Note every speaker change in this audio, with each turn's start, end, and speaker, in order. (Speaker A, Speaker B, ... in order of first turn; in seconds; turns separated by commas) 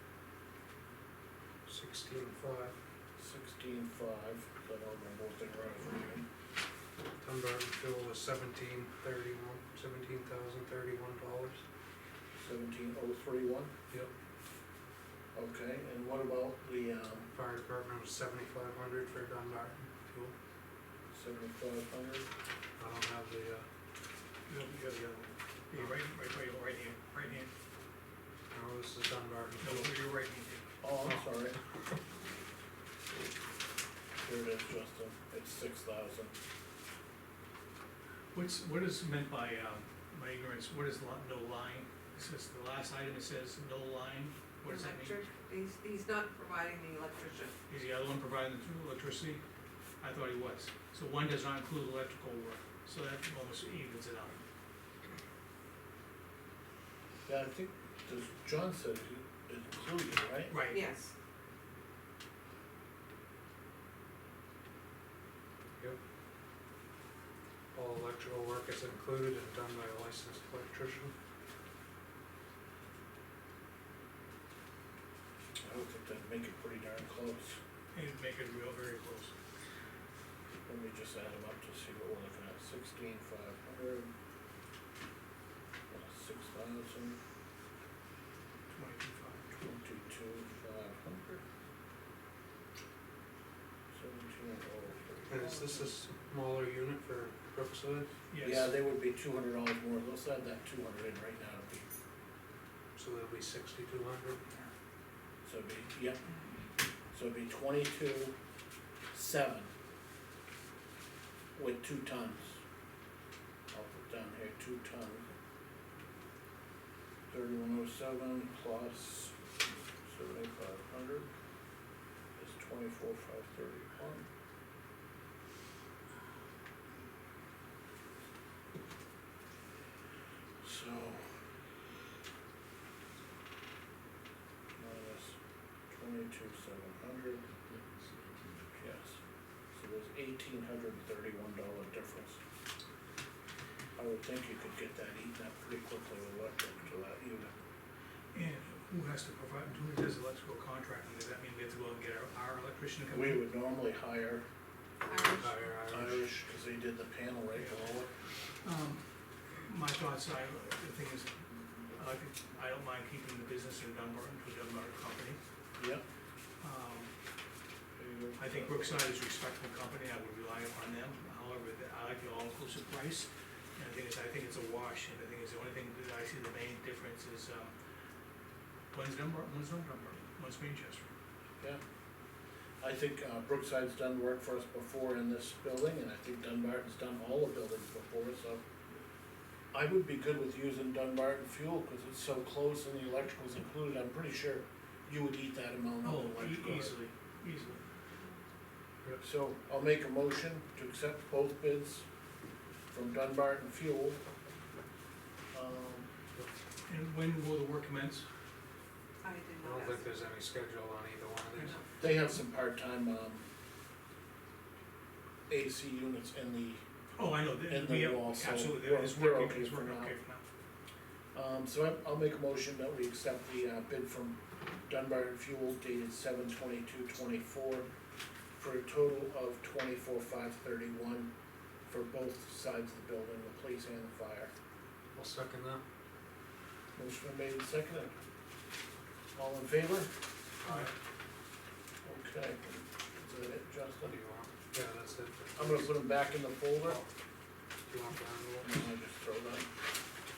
Speaker A: 1.7-2.7, Speaker B: 3.2-6.2, Speaker A: 7.2-11.6, Speaker B: 12.4-13.7, Speaker B: 15.3-17.3, Speaker A: 17.3-20.3, Speaker B: 21.1-22.3, Speaker A: 22.8-23.7, Speaker C: 24.5-27.5, Speaker A: 28.5-29.9, Speaker C: 29.6-30.6, Speaker B: 30.8-31.6, Speaker B: 34.2-36.4, Speaker C: 38.3-45.2, Speaker D: 44.6-47.5, Speaker C: 47.7-49.4, Speaker C: 50.0-54.4, Speaker B: 57.3-60.5, Speaker C: 60.5-60.8, Speaker D: 60.7-61.1, Speaker A: 67.7-71.1, Speaker B: 75.6-77.6, Speaker C: 77.9-79.3, Speaker B: 80.7-84.1, Speaker B: 85.9-87.2, Speaker C: 88.7-89.5, Speaker B: 89.6-91.4, Speaker B: 93.9-95.9, Speaker A: 95.3-98.1, Speaker C: 98.3-98.7, Speaker B: 98.4-101.9, Speaker A: 103.0-104.4, Speaker B: 105.4-106.2, Speaker B: 107.1-108.3, Speaker B: 109.1-109.7, Speaker B: 111.5-112.6, Speaker B: 113.7-115.3, Speaker B: 117.3-119.4, Speaker B: 120.0-121.3, Speaker B: 122.4-124.3, Speaker B: 130.6-131.3, Speaker B: 134.8-135.4, Speaker B: 135.9-137.4, Speaker B: 138.8-139.2, Speaker B: 139.7-142.4, Speaker B: 143.9-147.5, Speaker C: 148.3-153.4, Speaker B: 153.1-154.4, Speaker D: 155.1-155.5, Speaker A: 155.3-156.3, Speaker B: 155.9-158.1, Speaker C: 157.6-157.8, Speaker C: 158.6-159.0, Speaker C: 159.6-161.3, Speaker C: 161.9-165.4, Speaker B: 165.8-166.0, Speaker C: 166.6-167.1, Speaker B: 168.0-169.1, Speaker C: 168.4-177.7, Speaker C: 178.9-181.1, Speaker B: 182.8-188.6, Speaker B: 189.7-197.0, Speaker C: 196.0-197.8, Speaker B: 199.2-202.1, Speaker B: 202.9-204.2, Speaker B: 205.5-206.1, Speaker C: 206.9-208.2, Speaker D: 209.2-210.1, Speaker A: 209.6-211.8, Speaker B: 212.0-213.4, Speaker B: 215.5-216.8, Speaker C: 217.2-220.4, Speaker B: 217.7-220.2, Speaker B: 221.3-227.9, Speaker B: 228.6-231.3, Speaker B: 231.9-234.5, Speaker A: 235.2-235.8, Speaker B: 237.0-238.2, Speaker B: 239.3-240.1, Speaker A: 240.6-240.9, Speaker B: 242.0-244.2, Speaker A: 244.0-246.0, Speaker B: 245.6-247.0, Speaker A: 246.8-247.1, Speaker A: 247.9-248.8, Speaker B: 248.6-249.7